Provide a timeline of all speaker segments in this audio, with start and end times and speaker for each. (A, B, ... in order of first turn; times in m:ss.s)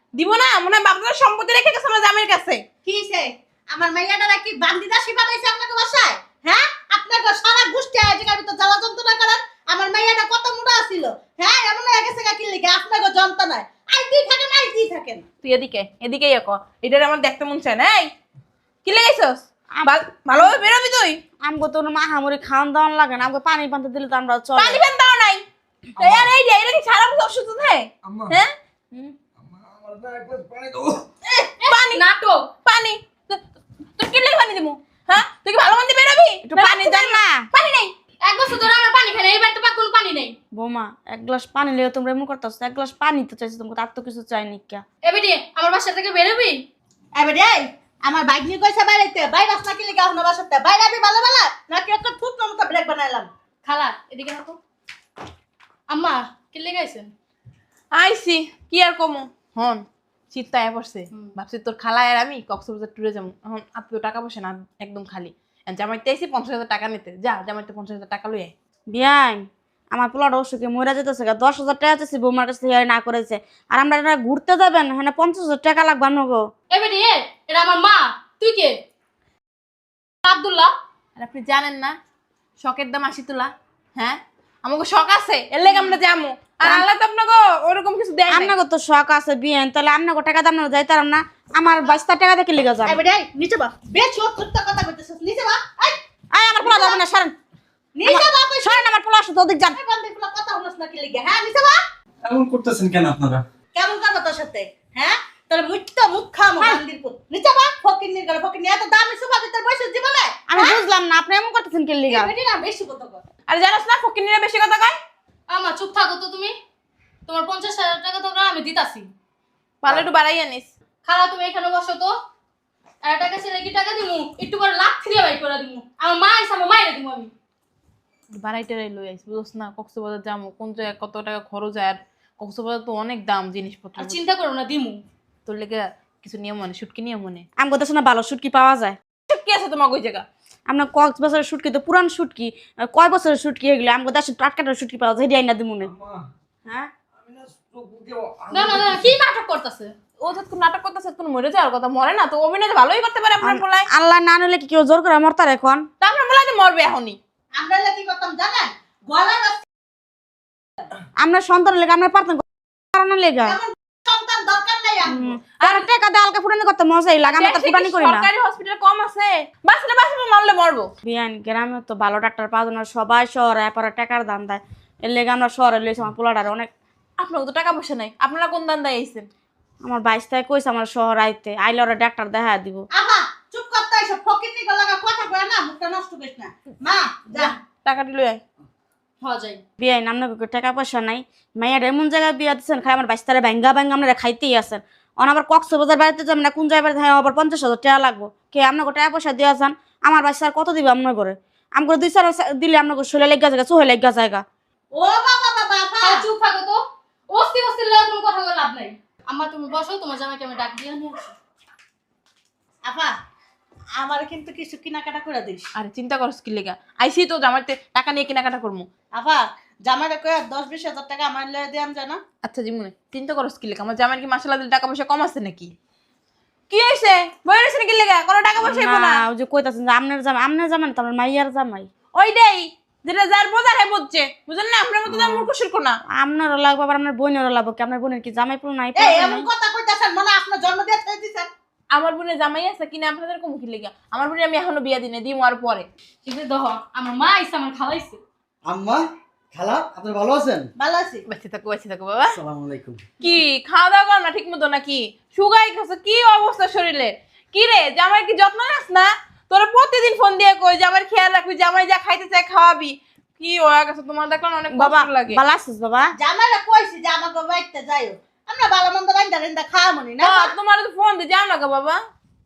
0:00.1-0:02.6 A
0:02.8-0:15.2 B
0:15.4-0:18.1 A
0:18.8-0:21.2 A
0:19.7-0:20.6 C
0:21.4-0:24.8 C
0:24.6-0:25.4 A
0:26.0-0:28.5 A
0:28.0-0:28.3 D
0:29.5-0:31.0 D
0:31.2-0:32.0 A
0:31.6-0:32.5 E
0:32.6-0:33.4 A
0:34.0-0:37.9 A
0:36.4-0:37.5 C
0:38.2-0:40.3 E
0:40.6-0:44.8 C
0:45.0-0:46.6 E
0:47.2-0:53.3 B
0:53.6-0:54.6 E
0:55.9-0:57.1 E
0:57.9-1:08.5 A
1:08.9-1:16.4 C
1:16.7-1:18.8 E
1:20.2-1:20.7 E
1:21.2-1:21.9 A
1:22.6-1:28.5 A
1:26.6-1:26.9 C
1:28.3-1:33.0 C
1:32.8-1:36.0 B
1:36.3-1:37.3 C
1:36.6-1:37.0 B
1:38.0-1:38.8 B
1:38.0-1:39.8 C
1:39.7-1:41.8 B
1:42.2-1:43.4 D
1:43.7-1:50.8 B
1:50.5-1:52.3 C
1:52.1-1:53.2 B
1:53.5-1:55.0 A
1:55.5-1:56.5 E
1:57.2-1:59.1 E
1:59.8-2:00.7 A
2:01.0-2:02.1 E
2:03.0-2:07.3 E
2:08.3-2:14.2 A
2:14.0-2:15.0 E
2:15.4-2:17.5 A
2:17.6-2:19.0 C
2:19.3-2:20.2 A
2:20.7-2:25.9 C
2:25.9-2:26.3 D
2:26.6-2:26.9 C
2:27.2-2:29.2 D
2:28.5-2:29.9 E
2:30.2-2:33.9 A
2:33.4-2:35.9 C
2:36.0-2:37.2 A
2:37.6-2:39.7 B
2:41.2-2:42.4 C
2:42.9-2:43.6 C
2:43.4-2:45.3 B
2:45.0-2:48.3 C
2:45.6-2:45.8 A
2:47.3-2:50.9 A
2:51.0-2:56.7 C
2:57.2-2:59.3 A
2:59.8-3:02.9 C
3:02.9-3:07.6 B
3:07.4-3:08.4 A
3:09.2-3:09.6 E
3:09.8-3:24.4 C
3:24.9-3:26.3 B
3:26.0-3:26.8 E
3:27.3-3:31.3 E
3:32.8-3:33.1 B
3:34.0-3:35.7 B
3:35.7-3:38.9 A
3:39.1-3:42.2 B
3:42.4-3:45.7 A
3:46.7-3:49.2 A
3:48.6-3:51.9 C
3:52.1-3:56.0 A
3:55.1-3:55.4 C
3:56.1-3:59.5 C
3:59.0-4:01.5 B
4:01.9-4:05.9 A
4:06.2-4:08.2 E
4:08.7-4:09.0 F
4:09.5-4:10.7 F
4:10.8-4:11.2 B
4:11.3-4:12.4 A
4:12.3-4:13.0 F
4:13.2-4:25.4 A
4:24.7-4:26.1 C
4:26.2-4:30.5 B
4:30.2-4:32.0 A